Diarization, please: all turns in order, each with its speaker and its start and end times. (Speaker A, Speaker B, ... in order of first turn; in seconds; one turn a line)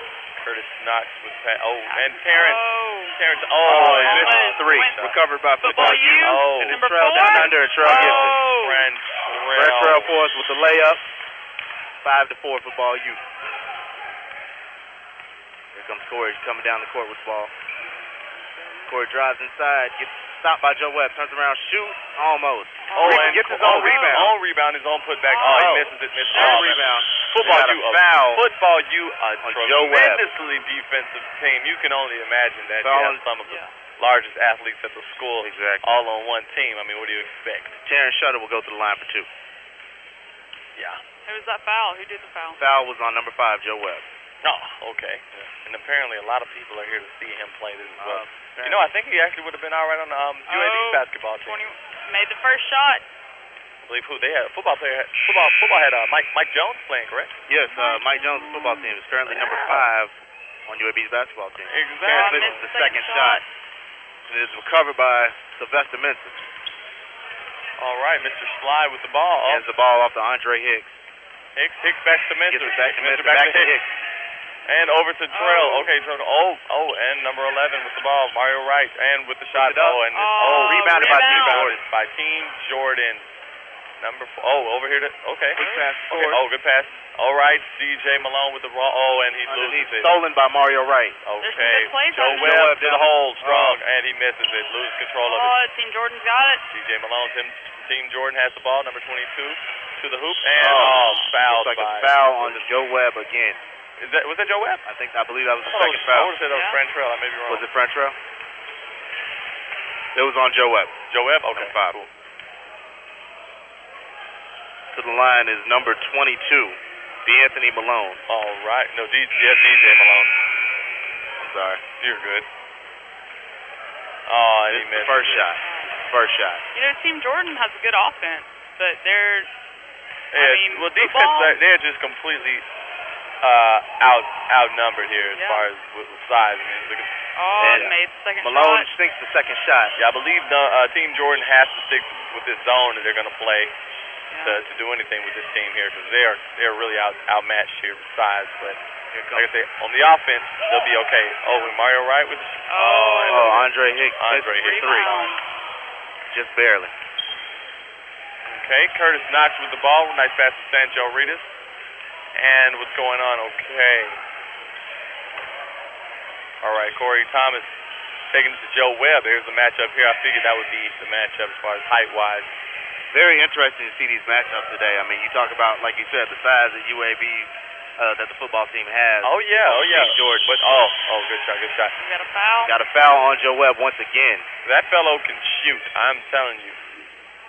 Speaker A: 0.4-2.6
Speaker B: 1.9-3.2
Speaker A: 3.2-5.1
Speaker C: 3.6-8.4
Speaker B: 3.7-5.1
Speaker B: 5.6-8.8
Speaker A: 5.7-10.1
Speaker C: 9.5-11.0
Speaker C: 12.0-13.2
Speaker C: 15.7-17.5
Speaker C: 18.9-24.3
Speaker B: 22.9-24.2
Speaker A: 22.9-37.8
Speaker B: 25.2-25.8
Speaker C: 25.4-28.4
Speaker B: 26.3-26.8
Speaker C: 29.4-30.2
Speaker C: 32.8-33.2
Speaker B: 33.4-33.7
Speaker C: 35.4-35.9
Speaker C: 37.8-39.3
Speaker A: 40.8-41.0
Speaker B: 41.2-42.6
Speaker C: 42.6-44.0
Speaker A: 44.4-51.7
Speaker C: 48.0-48.9
Speaker B: 50.5-53.0
Speaker A: 53.8-57.4
Speaker C: 57.5-60.1
Speaker B: 57.7-58.8
Speaker C: 60.7-63.4
Speaker A: 61.7-62.7
Speaker B: 62.0-63.4
Speaker C: 64.3-66.4
Speaker A: 67.8-69.6
Speaker C: 69.4-71.0
Speaker A: 71.5-73.8
Speaker C: 72.5-73.9
Speaker A: 74.7-83.2
Speaker B: 75.3-75.9
Speaker C: 79.5-81.8
Speaker B: 80.1-81.7
Speaker A: 84.0-90.2
Speaker C: 85.5-86.4
Speaker B: 85.6-85.8
Speaker C: 89.5-91.2
Speaker A: 91.2-95.6
Speaker B: 91.4-92.7
Speaker C: 92.2-93.8
Speaker B: 95.2-96.6
Speaker A: 96.7-102.6
Speaker C: 100.5-103.6
Speaker B: 100.7-101.3
Speaker A: 104.0-104.8
Speaker C: 104.8-106.3
Speaker A: 105.7-107.6
Speaker B: 106.5-106.8
Speaker C: 107.5-108.1
Speaker C: 110.1-111.0
Speaker A: 111.1-112.1
Speaker C: 111.5-112.0
Speaker C: 114.9-118.2
Speaker A: 118.3-120.3
Speaker C: 121.4-121.8
Speaker A: 122.0-122.5
Speaker A: 124.3-125.5
Speaker C: 124.7-126.6
Speaker B: 125.6-125.9
Speaker B: 126.7-129.5
Speaker A: 130.3-132.6
Speaker B: 130.3-131.6
Speaker A: 133.4-137.1
Speaker B: 135.3-135.7
Speaker B: 137.3-138.9
Speaker C: 137.6-139.9
Speaker A: 137.6-137.9
Speaker A: 139.9-143.7
Speaker B: 144.3-144.6
Speaker A: 144.4-148.8
Speaker C: 149.1-149.5
Speaker A: 149.3-155.2
Speaker B: 152.7-153.6
Speaker C: 153.3-155.1
Speaker B: 154.5-155.4
Speaker C: 156.3-156.9
Speaker A: 158.4-161.5
Speaker A: 162.3-164.2
Speaker A: 166.6-167.7
Speaker A: 168.3-172.5
Speaker C: 173.1-180.6
Speaker A: 179.2-181.9
Speaker B: 182.0-182.7
Speaker C: 182.6-184.4
Speaker A: 184.6-186.8